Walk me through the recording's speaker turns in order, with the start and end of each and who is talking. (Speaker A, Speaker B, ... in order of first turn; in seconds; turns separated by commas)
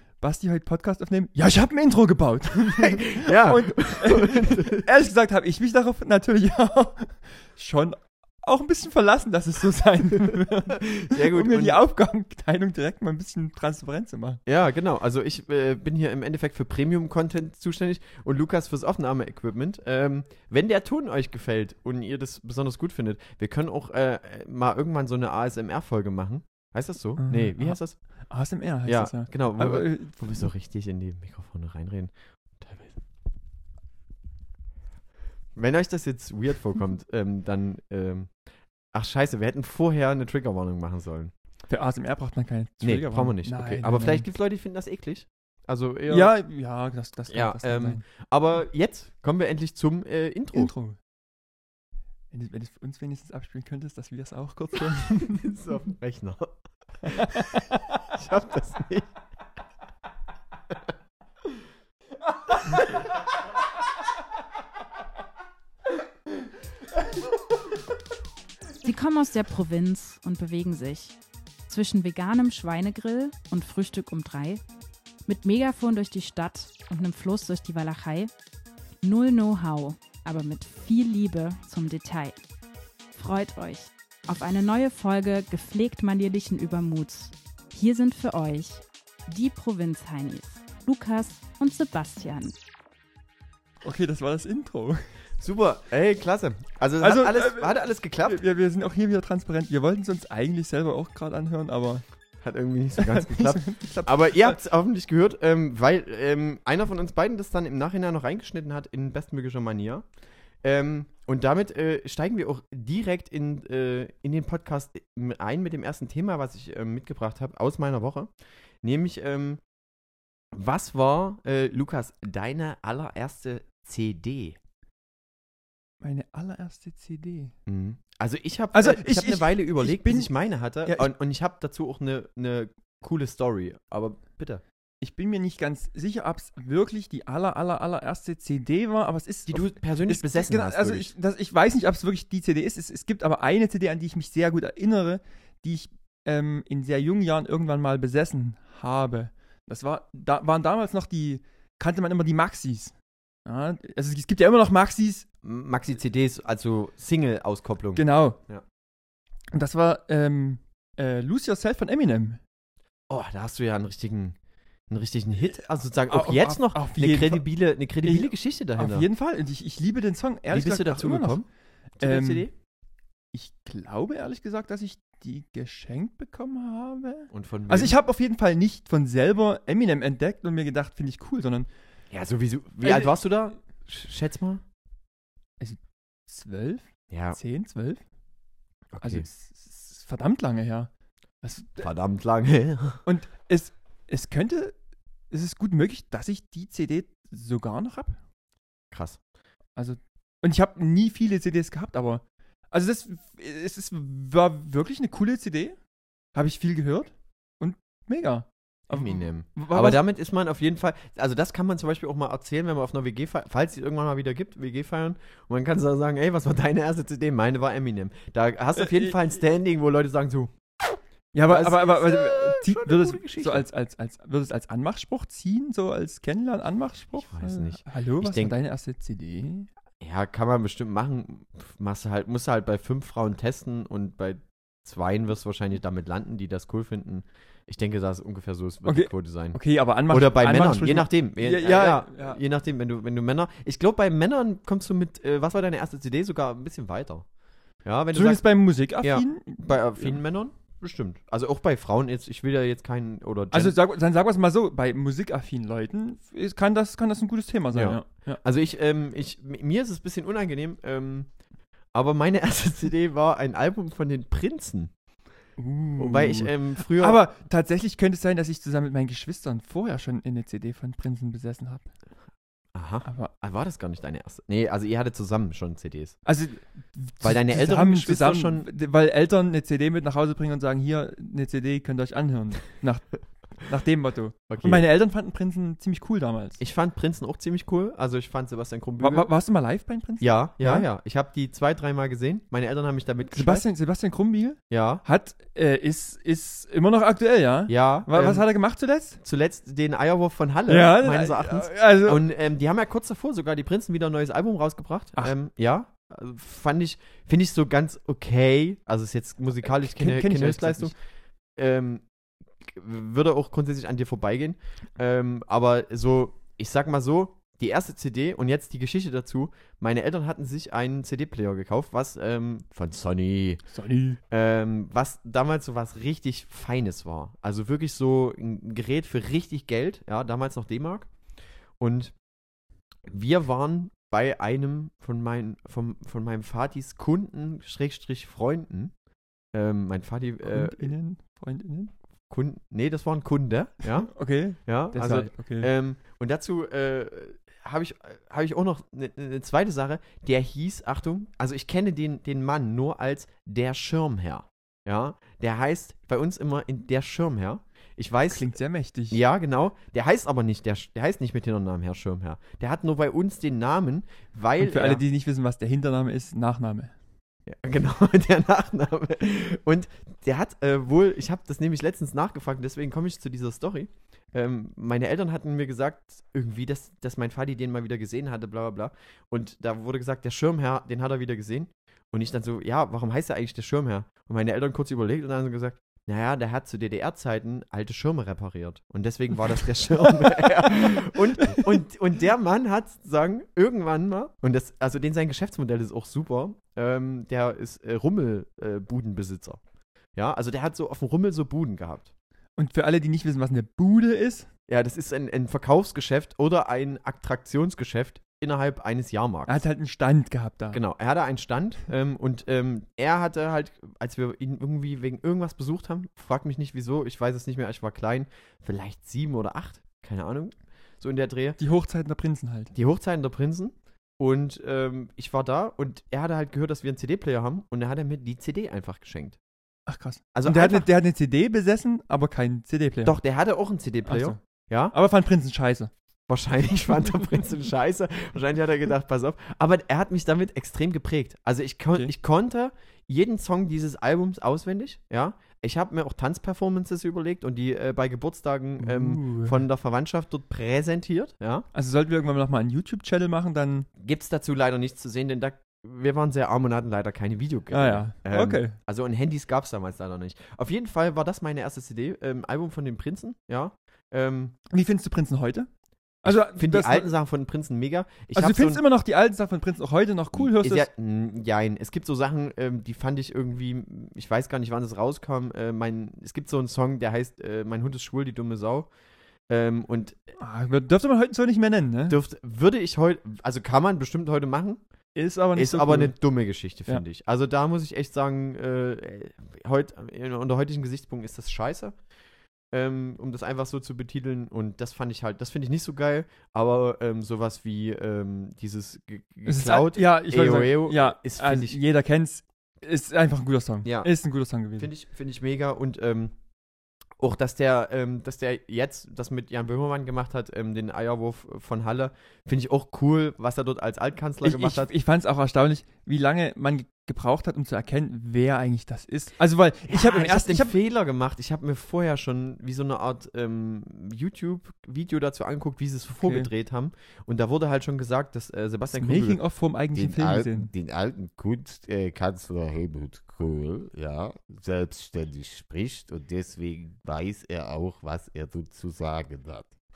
Speaker A: 0.2-14.4, Speaker B: 2.8-4.9, Speaker B: 10.9-11.8, Speaker B: 14.5-28.0, Speaker A: 27.2-30.5, Speaker B: 28.9-33.0, Speaker B: 35.6-38.3, Speaker B: 38.9-41.3, Speaker A: 41.7-44.3, Speaker B: 42.8-46.3, Speaker A: 46.1-48.0, Speaker B: 47.3-50.7, Speaker A: 50.5-51.0, Speaker A: 52.3-55.6, Speaker B: 55.4-57.5, Speaker A: 57.1-57.6, Speaker B: 58.1-59.1, Speaker C: 68.8-71.2, Speaker C: 71.7-74.6, Speaker C: 75.3-78.3, Speaker C: 79.0-82.4, Speaker C: 83.2-92.5, Speaker A: 93.8-95.0, Speaker B: 95.4-98.4, Speaker A: 97.0-102.0, Speaker B: 102.4-110.0, Speaker A: 103.0-104.6, Speaker B: 110.6-118.3, Speaker B: 118.8-119.6, Speaker B: 120.5-124.6, Speaker A: 126.0-127.5, Speaker B: 127.7-134.6, Speaker A: 128.7-130.3, Speaker A: 130.8-131.1, Speaker A: 135.0-152.9, Speaker B: 139.5-141.1, Speaker A: 153.4-155.3, Speaker B: 155.4-158.6, Speaker A: 158.0-158.4, Speaker A: 159.5-162.4, Speaker B: 163.1-164.4, Speaker B: 164.9-169.1, Speaker A: 166.1-167.5, Speaker A: 168.0-171.4, Speaker B: 170.5-171.5, Speaker B: 172.0-172.5, Speaker A: 172.0-172.5, Speaker A: 173.3-181.7, Speaker B: 177.3-177.9, Speaker B: 182.1-184.6, Speaker A: 182.8-183.1, Speaker A: 185.6-188.0, Speaker B: 187.1-187.4, Speaker B: 188.9-189.3, Speaker A: 189.0-190.9, Speaker A: 191.4-191.9, Speaker B: 191.8-193.0, Speaker A: 193.1-194.8, Speaker A: 195.3-198.2, Speaker B: 198.9-199.2, Speaker A: 199.8-205.8, Speaker A: 206.3-210.0, Speaker B: 208.9-220.5, Speaker A: 218.8-219.2, Speaker A: 221.3-229.7, Speaker B: 221.5-223.7, Speaker B: 227.2-228.6, Speaker B: 230.0-247.2, Speaker A: 238.8-242.4, Speaker B: 247.8-248.4, Speaker A: 248.1-250.2, Speaker B: 249.0-253.8, Speaker A: 253.5-258.4, Speaker B: 257.7-261.3, Speaker B: 261.9-264.9, Speaker A: 265.6-271.9, Speaker B: 266.0-267.2, Speaker B: 272.8-276.2, Speaker A: 273.1-273.3, Speaker A: 276.3-286.6, Speaker B: 277.2-278.7, Speaker B: 284.5-284.8, Speaker B: 286.6-289.3, Speaker A: 289.0-290.9, Speaker B: 290.2-293.7, Speaker A: 293.4-299.2, Speaker B: 294.7-295.0, Speaker B: 297.7-298.5, Speaker B: 299.2-310.9, Speaker A: 300.7-302.2, Speaker A: 309.6-310.9, Speaker B: 311.6-312.0, Speaker B: 312.6-323.6, Speaker A: 323.7-324.2, Speaker B: 324.3-331.1, Speaker B: 331.8-332.1, Speaker B: 333.1-338.9, Speaker B: 339.5-340.9, Speaker A: 340.4-341.9, Speaker B: 342.3-358.5, Speaker A: 344.1-345.7, Speaker A: 358.3-359.2, Speaker B: 359.1-365.0, Speaker A: 364.6-366.9, Speaker B: 367.5-399.6, Speaker A: 390.2-391.7, Speaker B: 400.1-402.1, Speaker A: 402.6-404.5, Speaker B: 404.7-409.6, Speaker A: 409.5-410.8, Speaker B: 410.7-421.6, Speaker A: 421.6-422.7, Speaker B: 422.7-429.4, Speaker A: 429.9-433.2, Speaker B: 430.3-430.9, Speaker B: 433.1-434.9, Speaker A: 434.1-434.4, Speaker A: 434.9-435.9, Speaker B: 436.3-451.7, Speaker A: 448.8-449.6, Speaker A: 451.7-453.9, Speaker B: 454.0-464.6, Speaker A: 457.7-458.8, Speaker A: 464.7-465.7, Speaker A: 466.2-467.1, Speaker B: 466.3-468.8, Speaker A: 468.4-470.9, Speaker B: 470.3-478.9, Speaker B: 479.5-480.3, Speaker A: 480.4-482.2, Speaker B: 482.1-484.8, Speaker A: 485.1-486.2, Speaker B: 485.6-492.0, Speaker B: 492.7-501.8, Speaker A: 499.5-504.9, Speaker B: 503.8-504.1, Speaker B: 504.8-506.3, Speaker B: 507.2-514.9, Speaker A: 514.4-520.8, Speaker B: 519.9-529.4, Speaker A: 526.2-526.5, Speaker A: 529.0-530.7, Speaker D: 529.9-539.7